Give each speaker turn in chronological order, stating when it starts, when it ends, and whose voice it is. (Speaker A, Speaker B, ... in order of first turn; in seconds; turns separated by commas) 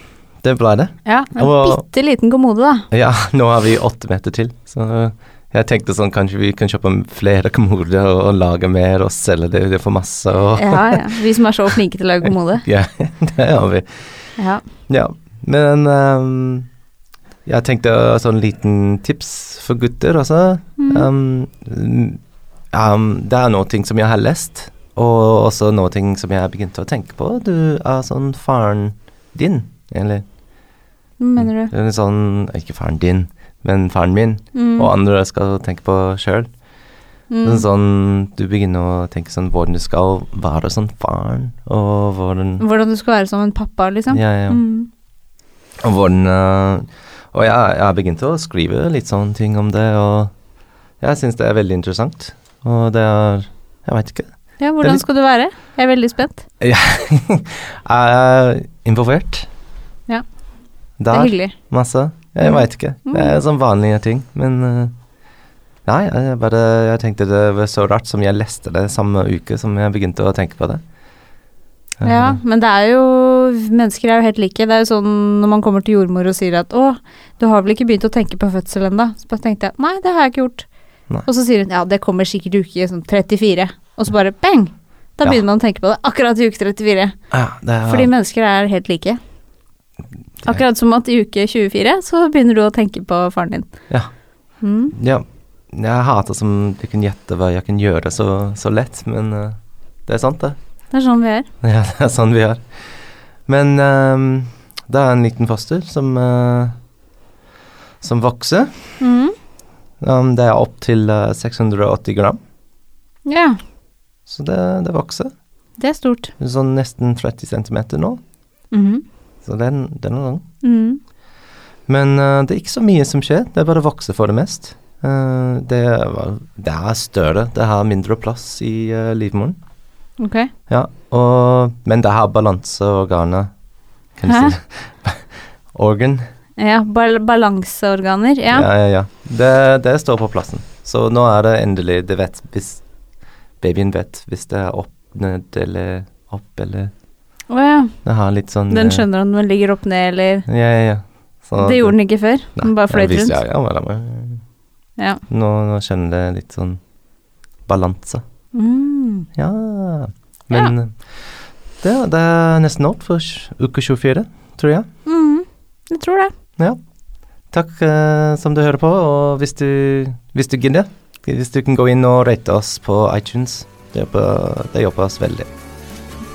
Speaker A: 0.4-1.8, Speaker B: 1.1-2.9, Speaker A: 2.9-11.0, Speaker B: 10.5-12.6, Speaker A: 12.6-14.2, Speaker B: 14.4-14.6, Speaker A: 14.9-16.7, Speaker A: 17.4-30.2, Speaker B: 20.8-21.1, Speaker B: 31.2-31.7, Speaker A: 31.4-36.5, Speaker B: 34.5-34.9, Speaker B: 37.3-37.6, Speaker A: 37.4-42.6, Speaker B: 42.6-44.9, Speaker A: 44.1-44.6, Speaker A: 45.8-50.3, Speaker A: 51.0-54.3, Speaker B: 54.6-56.4, Speaker A: 56.6-59.5, Speaker A: 61.0-64.9, Speaker B: 61.1-61.5, Speaker B: 62.4-63.4, Speaker A: 65.8-70.8, Speaker A: 72.0-72.4, Speaker B: 72.0-80.7, Speaker B: 81.2-87.1, Speaker A: 87.3-88.1, Speaker B: 87.8-89.2, Speaker B: 90.4-93.7, Speaker B: 94.6-94.9, Speaker A: 94.9-100.6, Speaker B: 100.9-101.5, Speaker A: 101.6-102.6, Speaker A: 103.5-106.8, Speaker A: 108.0-108.9, Speaker B: 109.0-109.3, Speaker A: 110.0-112.4, Speaker B: 113.2-113.6, Speaker A: 114.2-115.3, Speaker B: 115.8-116.3, Speaker A: 116.4-118.2, Speaker B: 118.7-119.0, Speaker A: 119.4-120.4, Speaker B: 120.6-121.0, Speaker A: 121.9-129.6, Speaker B: 130.2-130.5, Speaker A: 130.7-133.5, Speaker A: 134.1-136.2, Speaker B: 134.2-134.6, Speaker B: 136.6-138.7, Speaker A: 138.5-142.8, Speaker A: 143.6-146.9, Speaker B: 147.5-148.0, Speaker A: 148.0-149.0, Speaker B: 148.7-150.4, Speaker A: 150.5-154.4, Speaker B: 151.6-153.4, Speaker B: 155.0-155.2, Speaker A: 155.3-156.8, Speaker A: 157.6-158.2, Speaker B: 158.5-159.3, Speaker A: 159.3-164.9, Speaker B: 165.1-166.3, Speaker A: 167.5-175.5